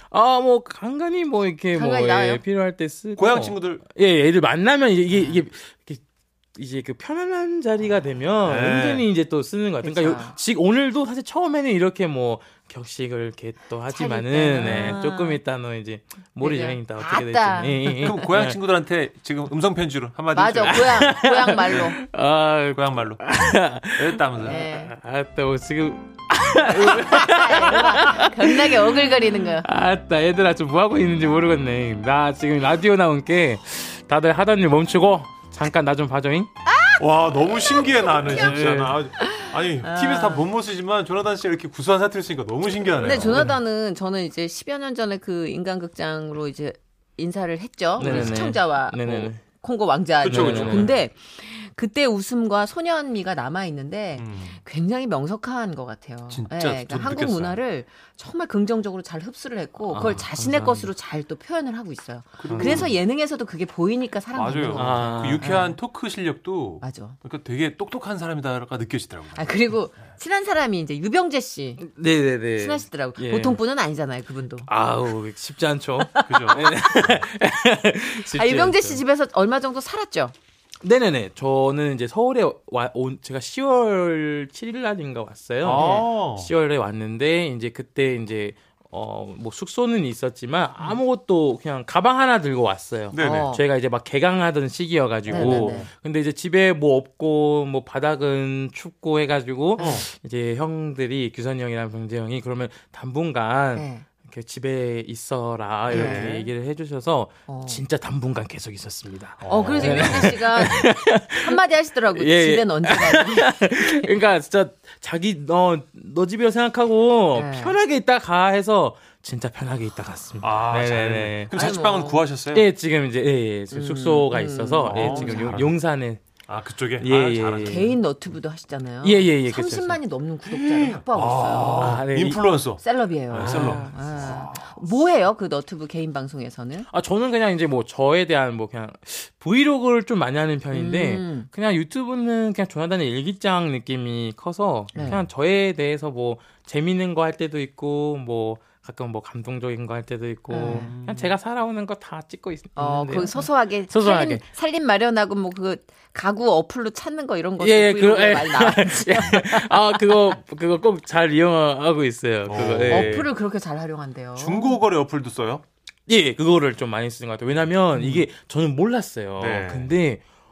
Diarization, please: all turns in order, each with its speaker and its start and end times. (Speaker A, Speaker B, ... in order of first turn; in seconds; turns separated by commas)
Speaker A: 0.1-6.0, Speaker B: 1.7-2.4, Speaker C: 3.1-3.8, Speaker A: 6.5-18.6, Speaker C: 8.4-9.1, Speaker B: 9.8-10.4, Speaker B: 13.9-15.4, Speaker C: 14.6-14.9, Speaker B: 16.4-18.3, Speaker C: 18.0-21.1, Speaker B: 20.3-22.0, Speaker A: 20.6-36.5, Speaker C: 22.7-24.6, Speaker B: 24.4-24.9, Speaker B: 26.8-29.6, Speaker B: 36.7-37.0, Speaker C: 37.0-43.5, Speaker B: 37.7-38.6, Speaker A: 38.2-39.0, Speaker B: 39.2-40.5, Speaker B: 43.0-65.8, Speaker A: 43.1-43.6, Speaker A: 48.0-49.4, Speaker C: 48.0-48.5, Speaker C: 50.2-51.0, Speaker A: 50.2-51.0, Speaker C: 54.2-54.6, Speaker C: 56.3-57.6, Speaker A: 59.9-60.9, Speaker C: 62.4-62.9, Speaker A: 62.5-62.9, Speaker C: 64.3-69.8, Speaker A: 64.7-65.7, Speaker B: 66.8-67.2, Speaker B: 69.3-71.8, Speaker A: 71.8-73.6, Speaker B: 72.5-74.7, Speaker A: 74.7-79.0, Speaker B: 76.0-76.7, Speaker C: 76.2-76.7, Speaker B: 78.3-80.3, Speaker A: 80.8-111.6, Speaker C: 85.6-86.5, Speaker B: 85.7-86.0, Speaker C: 93.1-93.5, Speaker B: 93.2-93.6, Speaker C: 95.3-95.9, Speaker B: 95.3-95.9, Speaker B: 99.8-100.0, Speaker C: 99.8-100.0, Speaker B: 103.7-104.0, Speaker C: 105.9-106.5, Speaker B: 105.9-106.4, Speaker B: 107.5-107.8, Speaker C: 109.4-110.4, Speaker B: 109.5-114.1, Speaker A: 112.1-121.7, Speaker B: 117.3-117.8, Speaker C: 120.4-122.7, Speaker B: 121.5-122.2, Speaker A: 122.5-126.2, Speaker B: 123.7-125.7, Speaker C: 124.9-125.7, Speaker C: 126.5-128.0, Speaker A: 127.0-127.9, Speaker B: 127.6-132.0, Speaker A: 129.0-130.0, Speaker C: 130.5-134.8, Speaker A: 131.6-132.4, Speaker B: 132.8-136.9, Speaker A: 133.3-134.3, Speaker A: 136.9-154.4, Speaker B: 140.7-141.5, Speaker B: 144.9-145.2, Speaker C: 144.9-145.2, Speaker B: 150.5-150.9, Speaker C: 150.6-151.3, Speaker B: 152.8-160.0, Speaker A: 157.6-163.3, Speaker C: 162.4-163.3, Speaker B: 162.6-164.8, Speaker C: 164.4-165.6, Speaker A: 166.1-170.2, Speaker C: 167.9-168.2, Speaker C: 169.4-169.9